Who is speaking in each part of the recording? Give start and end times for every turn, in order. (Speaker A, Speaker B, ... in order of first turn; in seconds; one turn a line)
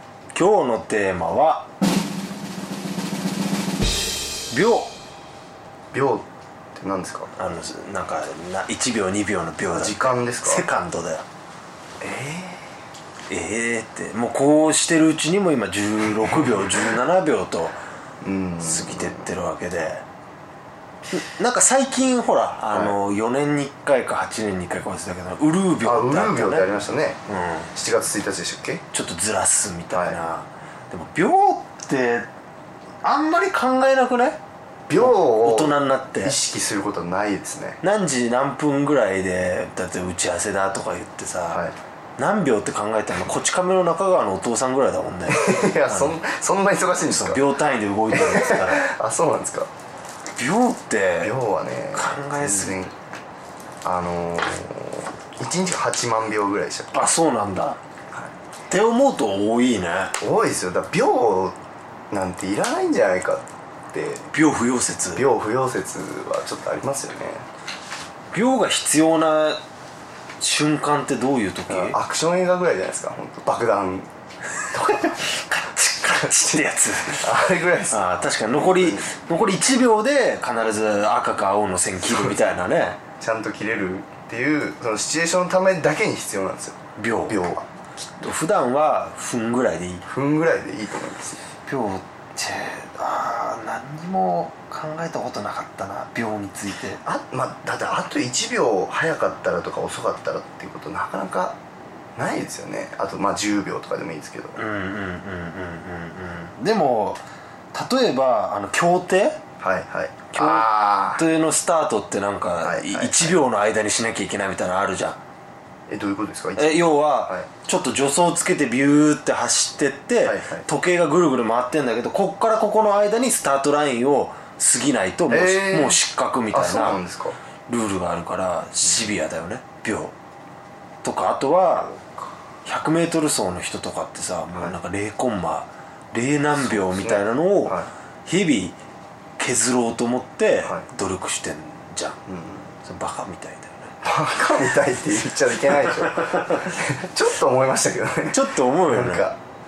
Speaker A: 0.3-1.7
Speaker A: 4.5-4.9
Speaker B: 5.9-7.3
Speaker A: 7.3-11.2
Speaker B: 9.7-10.6
Speaker B: 12.0-12.7
Speaker A: 13.3-17.8
Speaker B: 18.2-19.3
Speaker A: 18.6-20.0
Speaker A: 21.1-26.8
Speaker B: 25.8-27.2
Speaker A: 27.3-27.7
Speaker B: 27.7-28.8
Speaker A: 28.9-32.3
Speaker B: 29.9-30.2
Speaker A: 33.0-34.4
Speaker B: 34.9-37.8
Speaker A: 35.0-36.4
Speaker A: 37.8-41.6
Speaker A: 42.2-46.2
Speaker B: 45.3-47.5
Speaker A: 47.1-48.9
Speaker B: 48.1-49.7
Speaker A: 50.4-51.3
Speaker B: 51.2-52.9
Speaker A: 51.9-52.8
Speaker B: 53.8-57.1
Speaker A: 56.9-57.8
Speaker A: 58.7-60.1
Speaker B: 60.2-61.5
Speaker B: 62.1-64.3
Speaker A: 64.3-65.2
Speaker B: 65.1-67.5
Speaker A: 68.3-69.6
Speaker A: 70.4-72.0
Speaker B: 71.7-74.1
Speaker B: 74.7-75.2
Speaker A: 74.9-77.3
Speaker B: 77.1-79.1
Speaker A: 77.9-83.0
Speaker B: 82.0-82.3
Speaker B: 83.2-87.7
Speaker A: 87.0-87.4
Speaker A: 88.2-90.0
Speaker B: 90.0-91.4
Speaker A: 91.7-97.0
Speaker B: 97.0-101.6
Speaker B: 102.2-104.6
Speaker A: 104.6-107.2
Speaker A: 107.7-109.4
Speaker B: 109.6-111.2
Speaker A: 110.3-115.2
Speaker B: 112.6-113.4
Speaker B: 115.9-117.5
Speaker A: 116.6-127.0
Speaker B: 120.2-120.7
Speaker B: 125.3-126.0
Speaker B: 126.5-127.4
Speaker A: 127.7-130.1
Speaker A: 131.0-131.9
Speaker B: 131.7-132.3
Speaker A: 132.6-138.8
Speaker B: 136.5-137.9
Speaker A: 139.4-142.2
Speaker B: 142.3-142.7
Speaker A: 142.8-143.9
Speaker B: 144.0-149.4
Speaker A: 148.3-149.3